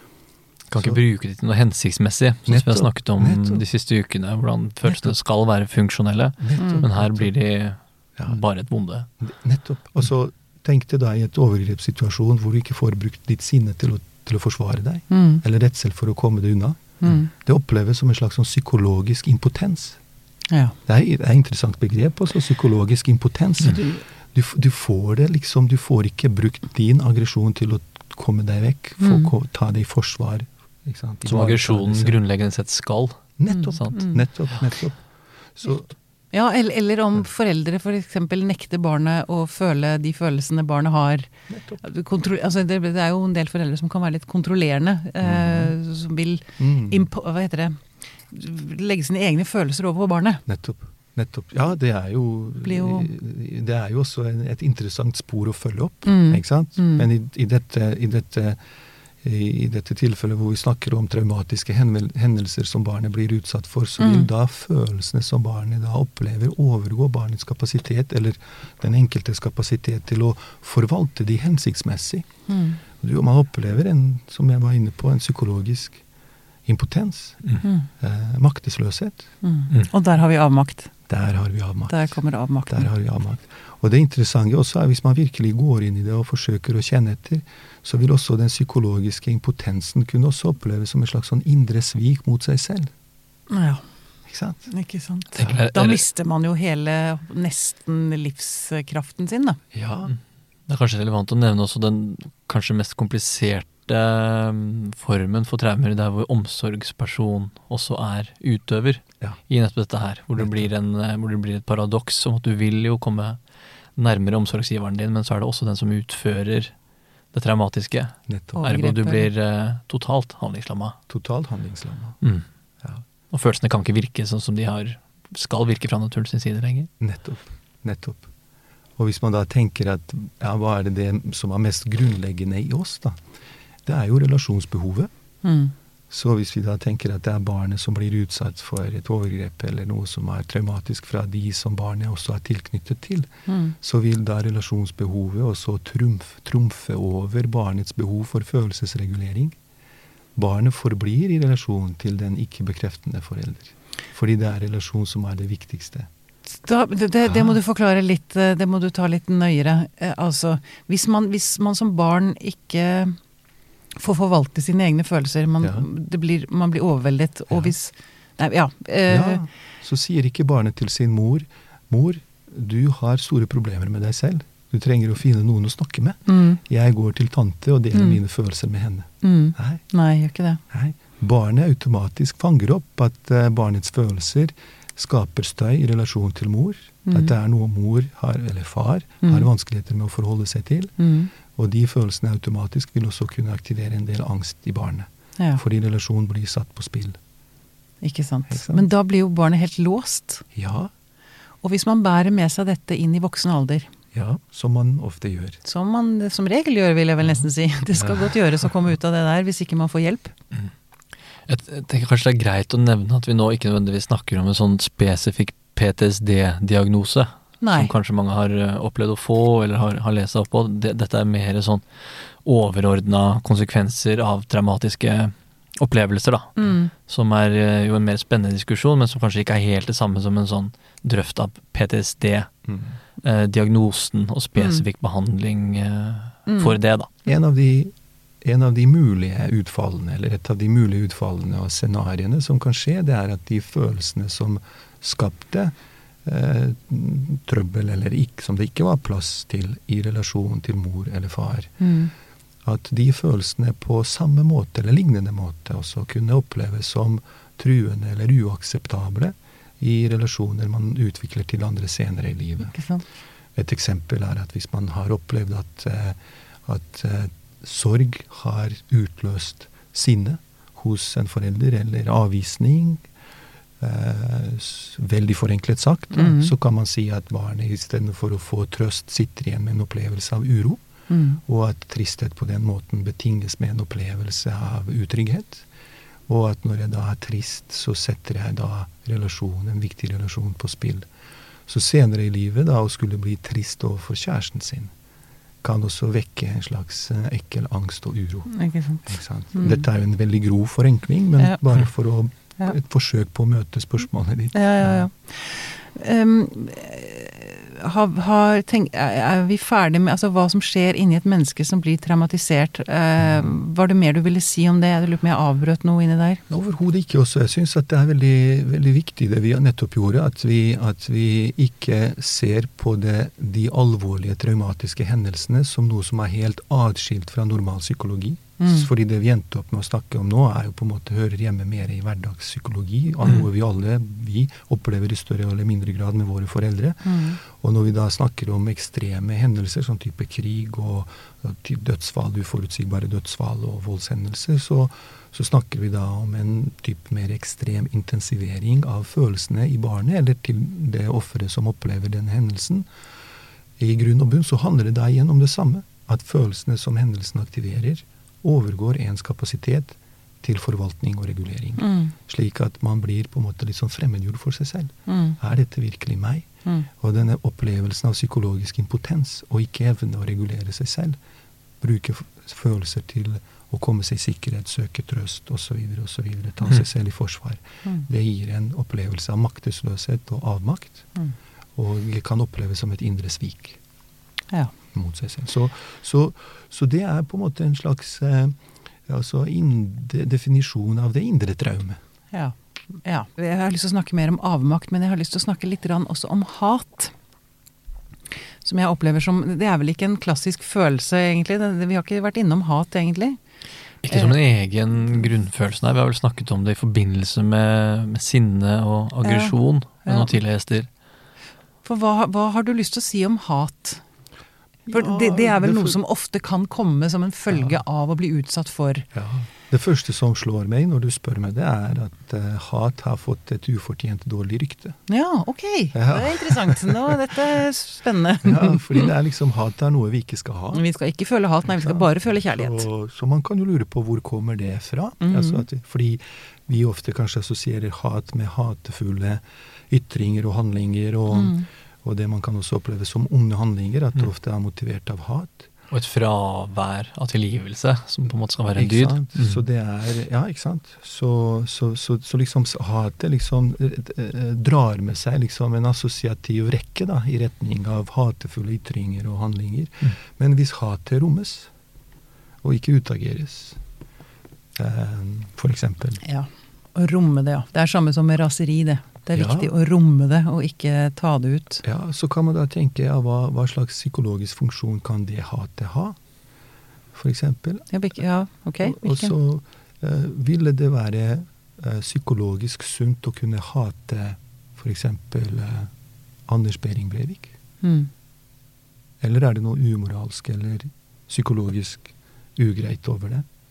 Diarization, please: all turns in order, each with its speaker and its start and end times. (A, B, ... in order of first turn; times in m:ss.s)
0:00.7-0:09.1 A
0:00.8-0:01.0 B
0:02.5-0:03.6 B
0:04.8-0:05.2 B
0:06.4-0:07.3 B
0:06.6-0:06.9 C
0:09.2-0:20.0 B
0:15.1-0:15.4 C
0:17.0-0:17.3 C
0:20.5-0:20.8 C
0:20.9-0:32.2 B
0:29.0-0:29.3 C
0:31.2-0:33.9 A
0:33.4-0:35.0 B
0:33.5-0:34.2 C
0:35.6-0:35.9 B
0:36.3-0:41.3 C
0:41.5-0:41.8 B
0:41.8-0:50.4 C
0:45.2-0:45.7 B
0:46.6-0:47.1 B
0:50.5-0:58.6 B
0:52.6-0:53.1 C
0:56.0-0:57.1 C
0:59.2-1:12.3 B
1:04.0-1:04.3 C
1:12.5-1:12.8 C
1:13.0-1:16.0 B
1:16.6-1:19.3 B
1:17.6-1:17.9 C
1:19.4-1:20.9 C
1:21.1-1:32.9 B
1:21.9-1:22.9 C
1:33.5-1:33.8 C
1:34.3-1:34.7 B
1:34.7-1:39.6 C
1:35.4-1:36.0 A
1:39.7-1:40.1 B
1:40.1-1:53.4 A
1:50.4-1:50.7 B
1:54.0-1:56.7 A
1:57.3-2:01.0 A
1:58.3-1:58.6 B
1:58.6-1:59.3 C
2:01.1-2:02.2 B
2:03.3-2:06.9 A
2:07.0-2:08.3 B
2:09.0-2:13.2 B
2:13.8-2:15.1 B
2:15.4-2:15.7 C
2:16.1-2:29.6 B
2:23.5-2:23.8 C
2:30.4-2:36.1 B
2:36.5-2:43.2 C
2:37.3-2:37.6 B
2:44.0-2:49.4 C
2:45.6-2:45.9 B
2:49.1-2:59.8 B
2:56.3-2:56.6 C
2:57.9-2:58.2 C
2:59.2-3:00.6 C
3:00.7-3:11.0 B
3:07.1-3:07.3 C
3:09.2-3:09.5 C
3:11.0-3:11.3 C
3:11.5-3:17.2 B
3:18.0-3:20.4 C
3:18.5-3:18.9 B
3:20.5-3:20.9 B
3:21.6-3:23.9 C
3:24.1-3:25.6 B
3:25.6-3:30.3 C
3:27.9-3:28.4 B
3:31.5-3:52.5 A
3:37.6-3:37.9 C
3:46.6-3:46.9 C
3:52.7-3:53.0 B
3:53.2-3:57.1 A
3:54.6-3:54.8 C
3:56.5-3:56.8 C
3:57.3-4:11.7 B
4:11.8-4:12.1 C
4:12.6-4:22.7 B
4:22.7-4:23.0 C
4:23.6-4:33.1 B
4:33.8-4:40.8 B
4:36.2-4:36.5 C
4:41.1-4:41.4 C
4:41.4-4:45.7 B
4:46.3-4:51.1 B
4:51.7-4:54.9 B
4:55.6-5:05.1 B
4:58.5-4:59.8 C
5:04.5-5:16.4 C
5:13.2-5:13.5 B
5:16.5-5:52.9 B
5:28.6-5:28.9 C
5:37.0-5:37.4 C
5:53.8-6:11.2 B
6:01.8-6:02.1 C
6:05.1-6:05.4 C
6:11.8-6:21.1 B
6:21.8-6:23.8 B
6:24.9-6:32.0 B
6:32.3-6:37.1 C
6:38.6-6:43.4 C
6:44.0-6:50.9 A
6:44.1-6:44.4 C
6:49.2-6:50.3 C
6:51.8-6:54.0 C
6:54.9-6:56.0 B
6:54.9-6:59.1 C
6:57.5-6:57.8 B
6:59.1-7:05.0 B
7:05.1-7:09.1 C
7:05.9-7:07.3 B
7:08.4-7:10.8 B
7:10.7-7:12.9 C
7:11.7-7:25.7 B
7:15.2-7:15.6 C
7:21.3-7:21.7 C
7:25.9-7:29.6 A
7:28.8-7:41.7 B
7:42.6-7:43.8 B
7:44.8-7:46.2 B
7:46.2-7:51.8 C
7:49.3-7:49.7 B
7:51.8-7:56.2 B
7:57.1-7:57.9 B
7:57.9-7:59.3 C
7:58.8-8:05.9 B
8:06.5-8:07.5 B
8:07.8-8:08.1 C
8:09.2-8:13.5 B